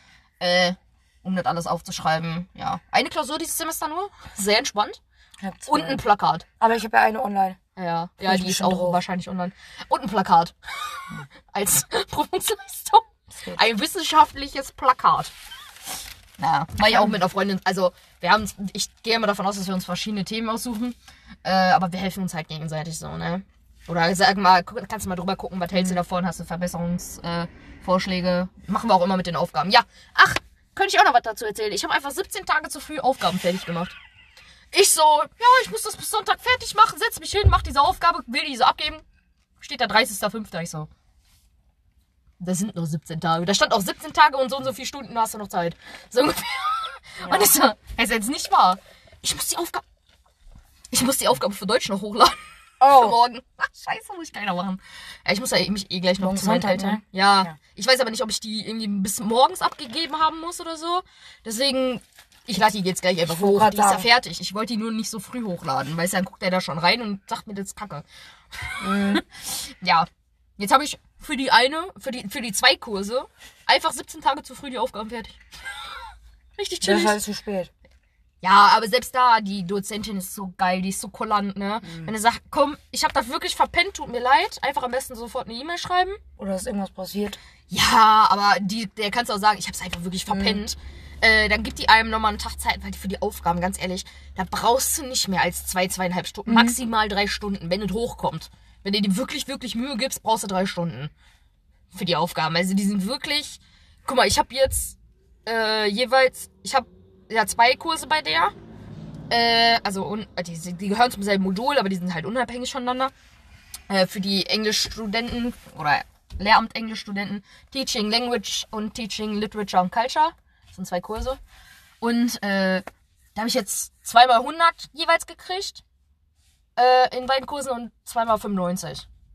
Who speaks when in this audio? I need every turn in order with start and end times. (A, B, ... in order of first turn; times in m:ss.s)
0:00.4-0:05.0 A
0:05.4-0:06.0 B
0:05.7-0:06.4 A
0:06.6-0:07.6 B
0:07.8-0:15.3 A
0:08.2-0:09.0 B
0:13.3-0:13.6 B
0:16.4-0:33.9 A
0:16.9-0:17.1 B
0:34.7-0:39.0 A
0:39.6-0:40.9 A
0:42.4-0:49.8 A
0:47.2-0:47.5 B
0:50.9-1:15.4 A
0:52.8-0:53.2 B
0:56.2-0:57.6 B
1:03.3-1:04.0 B
1:08.8-1:09.2 B
1:16.6-1:17.2 A
1:16.8-1:17.7 B
1:18.4-1:26.2 A
1:21.8-1:22.1 B
1:26.4-1:27.4 B
1:27.7-1:41.1 A
1:30.3-1:30.6 B
1:36.4-1:36.8 B
1:41.9-1:48.5 A
1:49.3-1:53.1 A
1:53.9-2:01.4 A
2:02.0-2:05.8 A
2:06.8-2:09.0 A